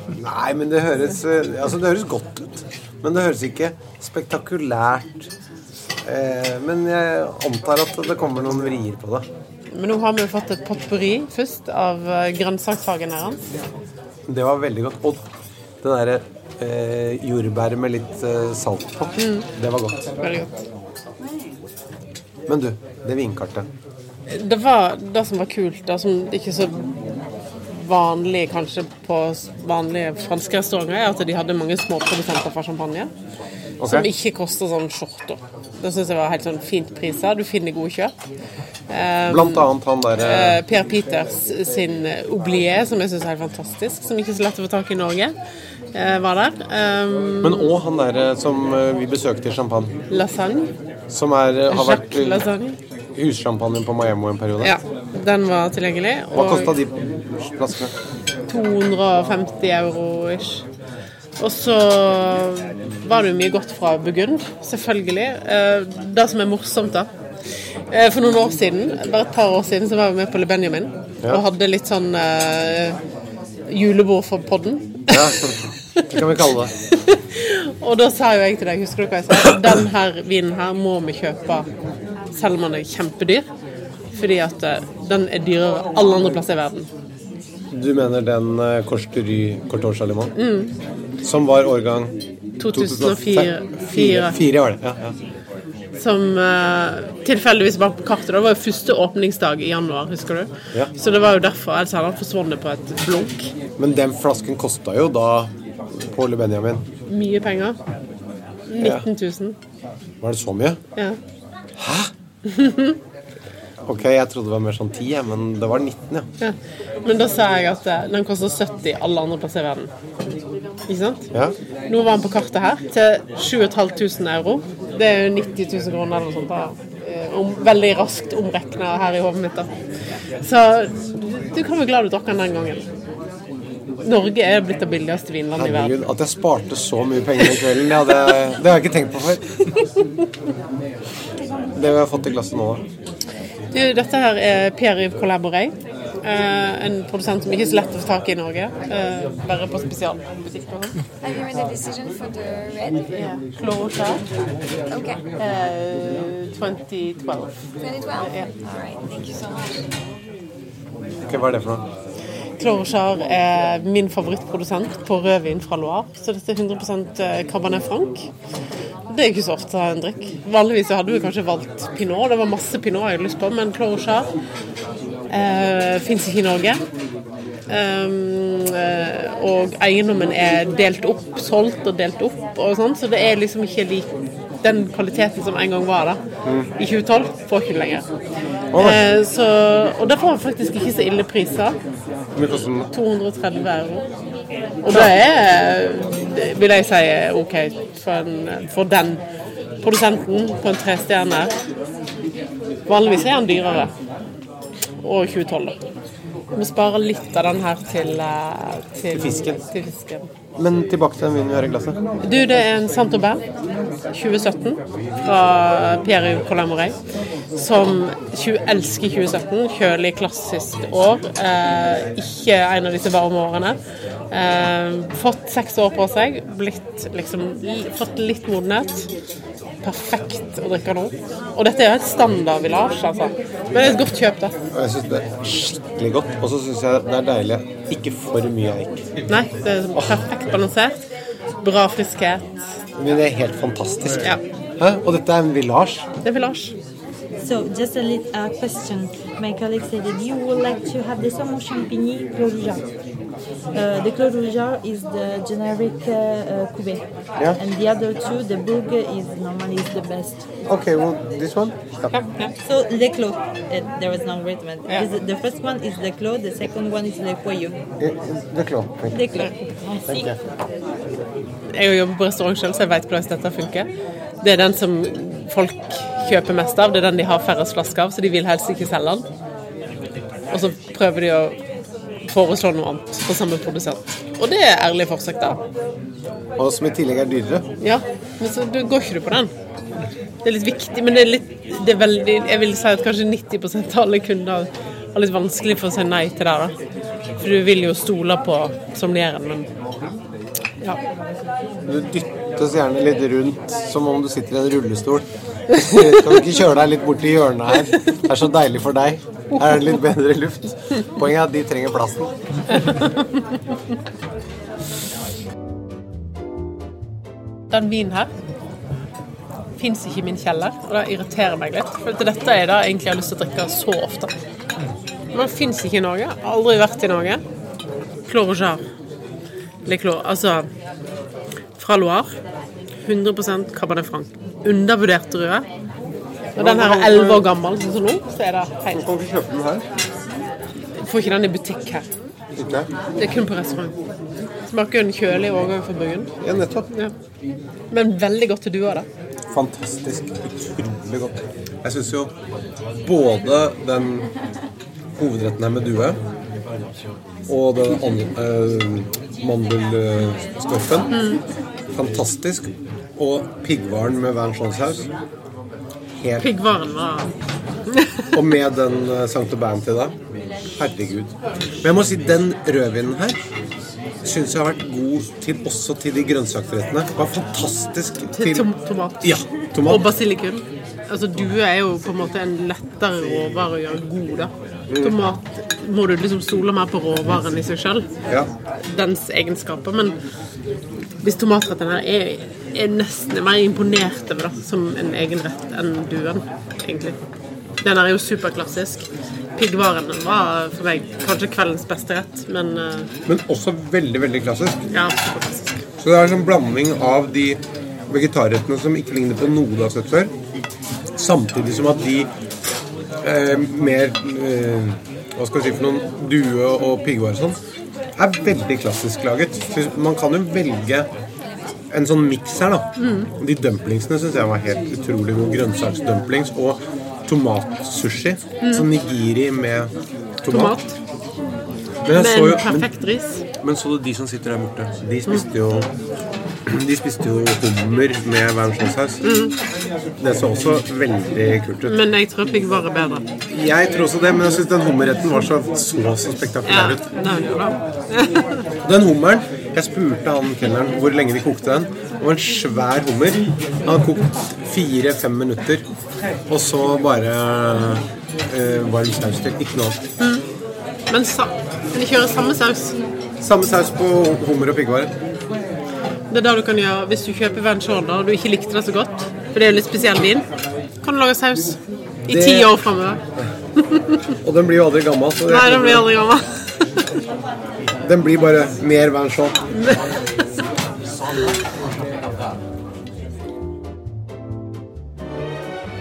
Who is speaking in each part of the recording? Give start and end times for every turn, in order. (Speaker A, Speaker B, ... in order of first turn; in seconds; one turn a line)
Speaker A: 0.1-5.3
Speaker A: 6.0-9.3
Speaker B: 9.7-13.4
Speaker A: 14.3-15.3
Speaker A: 15.8-20.1
Speaker B: 19.2-19.5
Speaker B: 20.2-20.6
Speaker A: 22.5-23.7
Speaker B: 24.3-26.9
Speaker B: 27.7-33.1
Speaker A: 33.8-34.1
Speaker B: 33.8-38.1
Speaker B: 38.9-45.3
Speaker A: 39.3-40.6
Speaker B: 45.9-47.7
Speaker A: 47.4-49.9
Speaker B: 50.1-50.7
Speaker A: 51.1-52.4
Speaker B: 51.7-52.8
Speaker A: 53.1-54.8
Speaker B: 54.6-56.8
Speaker A: 56.3-57.9
Speaker B: 58.5-60.6
Speaker B: 61.4-67.1
Speaker B: 67.9-73.0
Speaker B: 73.7-75.2
Speaker A: 75.1-76.7
Speaker B: 76.9-81.7
Speaker B: 82.3-83.5
Speaker B: 84.1-86.9
Speaker A: 87.7-90.3
Speaker B: 90.3-90.7
Speaker A: 91.2-92.2
Speaker B: 92.6-94.4
Speaker A: 92.7-95.1
Speaker B: 96.0-103.5
Speaker A: 103.8-106.8
Speaker B: 107.1-107.8
Speaker B: 108.7-109.5
Speaker A: 108.8-109.0
Speaker A: 110.2-110.8
Speaker A: 111.8-112.1
Speaker B: 112.5-113.0
Speaker A: 113.8-116.3
Speaker B: 116.4-119.9
Speaker B: 120.9-121.3
Speaker B: 121.9-129.7
Speaker B: 130.4-132.8
Speaker B: 134.0-135.9
Speaker A: 135.5-139.6
Speaker A: 141.7-142.8
Speaker B: 143.7-151.0
Speaker C: 151.2-153.1
Speaker B: 153.1-154.2
Speaker C: 154.9-155.2
Speaker B: 155.4-157.5
Speaker C: 157.8-159.9
Speaker A: 161.3-161.8
Speaker B: 162.6-168.3
Speaker B: 169.1-174.3
Speaker B: 175.3-176.8
Speaker B: 177.7-184.1
Speaker B: 184.6-186.2
Speaker A: 186.4-186.7
Speaker B: 186.8-188.1
Speaker A: 188.7-189.0
Speaker B: 188.8-191.8
Speaker A: 192.3-192.9
Speaker B: 192.5-194.1
Speaker B: 194.8-199.2
Speaker B: 199.8-201.5
Speaker B: 202.9-203.9
Speaker B: 205.0-205.8
Speaker B: 206.5-210.3
Speaker A: 209.1-209.6
Speaker A: 210.6-212.0
Speaker B: 212.2-213.4
Speaker B: 214.1-216.9
Speaker B: 217.6-223.8
Speaker B: 224.3-229.1
Speaker B: 229.8-234.5
Speaker A: 233.7-234.0
Speaker A: 234.7-239.1
Speaker B: 239.3-241.0
Speaker B: 241.6-242.5
Speaker A: 242.9-246.1
Speaker B: 246.2-246.7
Speaker D: 247.4-252.9
Speaker D: 253.7-260.4
Speaker A: 260.6-262.1
Speaker B: 262.1-262.5
Speaker D: 262.6-267.8
Speaker A: 268.0-269.2
Speaker D: 269.1-270.3
Speaker A: 270.1-270.4
Speaker B: 271.7-273.9
Speaker B: 274.4-279.2
Speaker B: 280.5-281.6
Speaker B: 282.2-285.6
Speaker A: 286.6-287.6
Speaker B: 287.8-289.5
Speaker B: 290.4-296.8
Speaker B: 297.4-299.7
Speaker A: 301.8-312.4
Speaker B: 305.8-306.3
Speaker B: 312.8-313.1
Speaker B: 317.7-318.3
Speaker B: 319.8-324.3
Speaker B: 325.3-327.4
Speaker B: 328.2-328.8
Speaker B: 329.9-330.7
Speaker B: 331.8-332.3
Speaker B: 333.0-335.6
Speaker A: 336.5-337.5
Speaker B: 336.6-339.0
Speaker A: 338.9-339.8
Speaker B: 341.0-342.1
Speaker A: 342.6-342.9
Speaker B: 343.2-344.0
Speaker B: 344.6-346.3
Speaker A: 346.4-346.9
Speaker B: 347.9-349.1
Speaker A: 349.5-352.3
Speaker A: 352.9-354.3
Speaker A: 355.1-356.2
Speaker A: 357.5-361.2
Speaker B: 361.1-361.4
Speaker A: 361.9-365.1
Speaker A: 366.2-366.5
Speaker B: 366.4-367.3
Speaker A: 368.3-370.2
Speaker A: 370.8-373.4
Speaker A: 374.2-380.1
Speaker B: 378.3-379.3
Speaker B: 379.8-388.1
Speaker A: 384.9-385.2
Speaker B: 388.8-390.2
Speaker B: 391.2-397.2
Speaker B: 397.8-399.1
Speaker B: 399.6-403.1
Speaker A: 403.2-404.9
Speaker B: 404.9-405.8
Speaker A: 406.0-410.3
Speaker A: 411.1-412.3
Speaker A: 413.2-417.6
Speaker A: 418.1-421.1
Speaker A: 421.9-430.8
Speaker B: 423.0-423.3
Speaker B: 428.6-428.9
Speaker B: 430.5-430.9
Speaker A: 432.0-432.9
Speaker B: 432.1-433.4
Speaker A: 433.6-435.9
Speaker A: 436.6-439.2
Speaker B: 439.2-439.6
Speaker A: 440.2-442.0
Speaker B: 441.8-443.3
Speaker A: 443.5-447.1
Speaker B: 446.6-448.6
Speaker A: 448.8-455.9
Speaker A: 456.5-460.0
Speaker B: 460.2-460.4
Speaker B: 461.1-463.0
Speaker A: 463.4-465.1
Speaker B: 466.3-470.4
Speaker B: 471.0-473.2
Speaker A: 472.3-472.8
Speaker A: 474.4-476.1
Speaker B: 475.5-477.1
Speaker A: 478.0-479.6